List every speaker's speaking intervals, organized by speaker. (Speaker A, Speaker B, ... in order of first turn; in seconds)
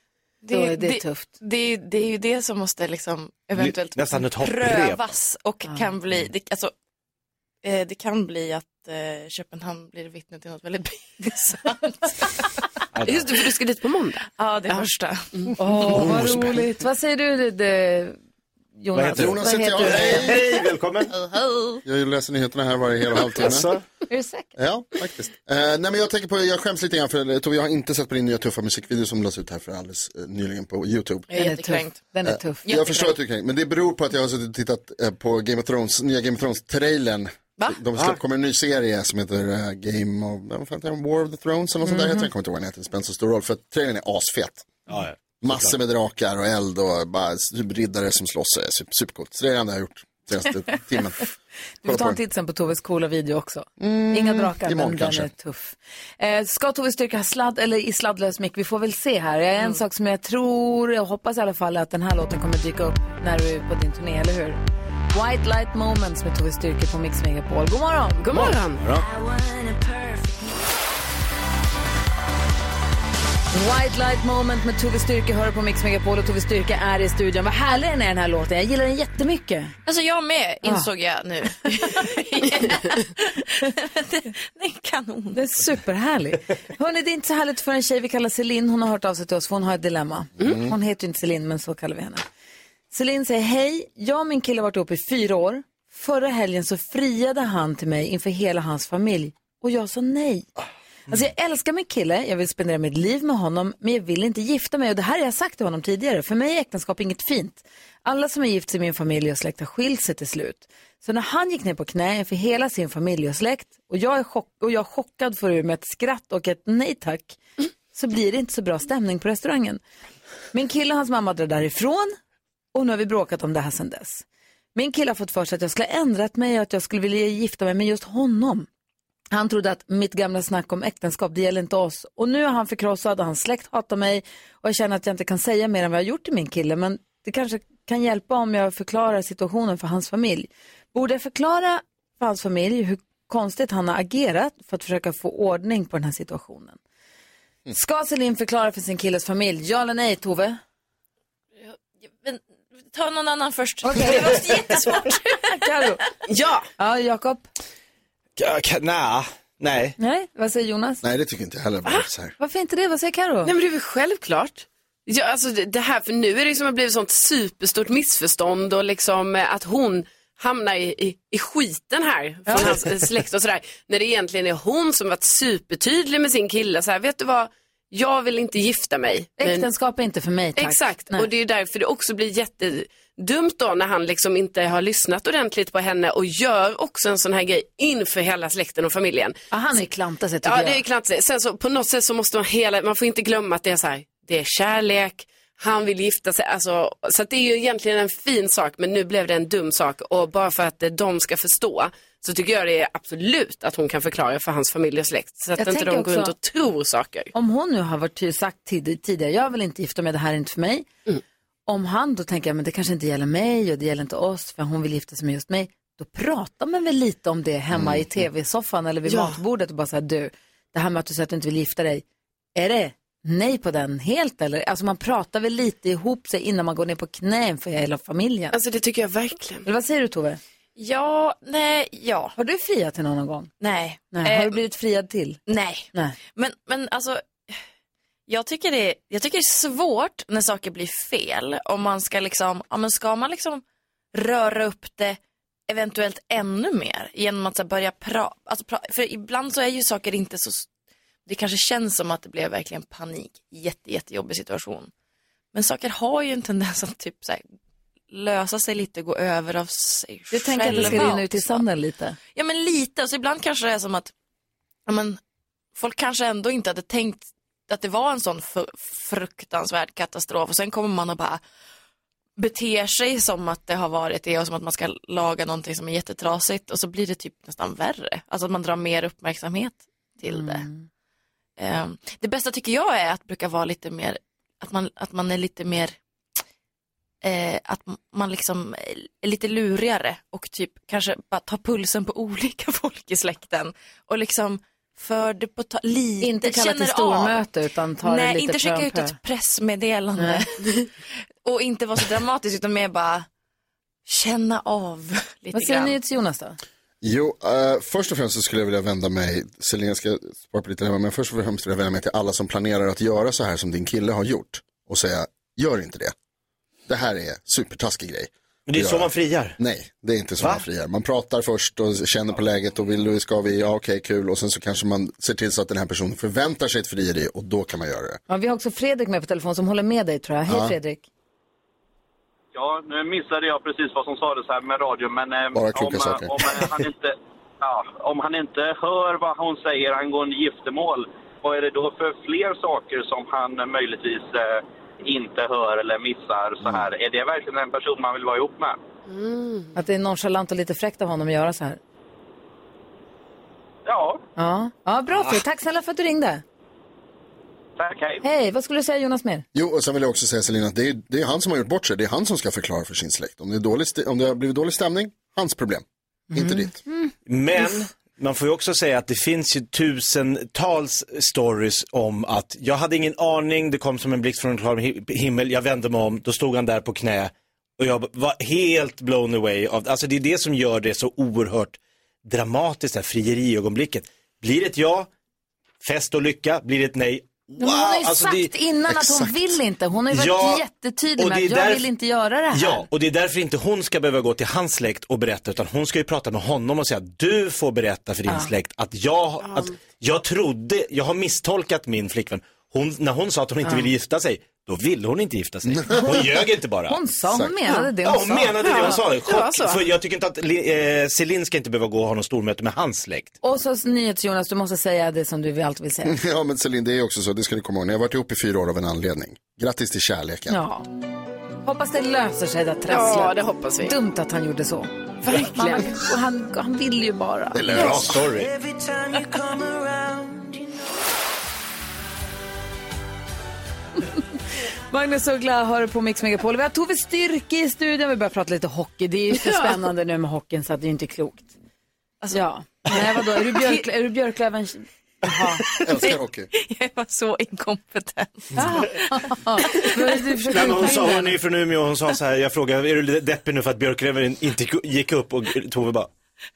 Speaker A: 0.4-6.7, 7.6-12.3, 14.3-15.3, 21.1-21.8, 31.3-32.0, 32.6-33.1, 69.3-70.4, 79.9-85.4, 151.6-155.9, 230.8-232.3, 233.6-234.6, 235.5-237.6, 238.3-250.7, 251.3-254.9, 255.5-257.4, 258.1-261.6, 262.4-264.1, 264.9-265.2, 265.8-271.4, 272.4-280.7, 281.6-286.0, 287.2-297.4, 298.0-300.9, 301.4-303.3, 304.1-306.0, 442.2-443.8, 445.7-448.6, 449.7-450.0
Speaker B: 0.5-1.3, 15.6-18.2, 18.8-20.3, 24.1-24.5, 31.3-33.1, 41.8-42.3, 51.8-64.6, 65.1-68.4, 73.5-79.8, 85.3-92.2, 92.9-100.5, 101.1-117.4, 117.9-119.8, 120.5-122.2, 122.7-128.7, 129.3-146.8, 147.7-150.6, 153.8-154.9, 155.5-156.0, 156.8-157.5, 160.0-161.0, 162.4-163.5, 172.5-172.8, 179.4-181.3, 189.5-190.8, 205.6-206.3, 207.3-210.9, 211.7-222.0, 222.6-228.6, 229.7-230.4, 232.4-233.5, 234.1-235.4, 260.3-262.2, 280.3-280.9, 296.2-299.2, 300.2-300.4, 305.5-306.6, 328.3-331.1, 349.8-351.8, 354.4-356.4, 358.2-359.4, 366.3-366.9, 387.6-392.9, 403.6-403.9, 406.9-408.6, 413.4-416.2, 420.5-420.9, 421.6-427.9, 434.9-441.5, 442.3-445.6, 448.5-451.4
Speaker C: 3.6-5.0, 12.9-13.3, 15.9-16.6, 18.9-21.1, 23.4-23.8, 44.9-45.8, 68.3-69.0, 158.4-160.0, 260.7-261.0, 318.7-319.6, 320.4-320.6, 367.3-385.1, 385.8-388.5, 390.1-390.6, 391.2-391.9, 392.5-407.0, 408.0-413.4, 427.7-428.5, 450.5-456.1
Speaker D: 13.1-15.5, 68.2-68.8, 156.3-156.7, 163.4-179.7, 180.6-189.4, 190.4-207.3, 219.1-219.4, 228.5-229.7, 349.1-349.7, 399.4-399.7, 408.6-409.8, 422.9-423.9, 425.2-426.0, 439.4-439.8
Speaker E: 19.1-20.4, 21.9-23.7, 24.6-31.3, 32.3-44.7, 45.4-51.3, 51.9-52.2, 53.8-55.3, 161.0-162.3, 217.7-218.1, 307.0-316.1, 316.9-328.2, 330.5-330.8, 335.6-336.8, 359.5-366.8, 388.9-389.4, 405.7-406.4, 407.3-407.5, 416.1-420.6, 427.5-428.5, 445.8-446.5
Speaker F: 332.5-348.8, 353.9-354.2, 357.8-358.2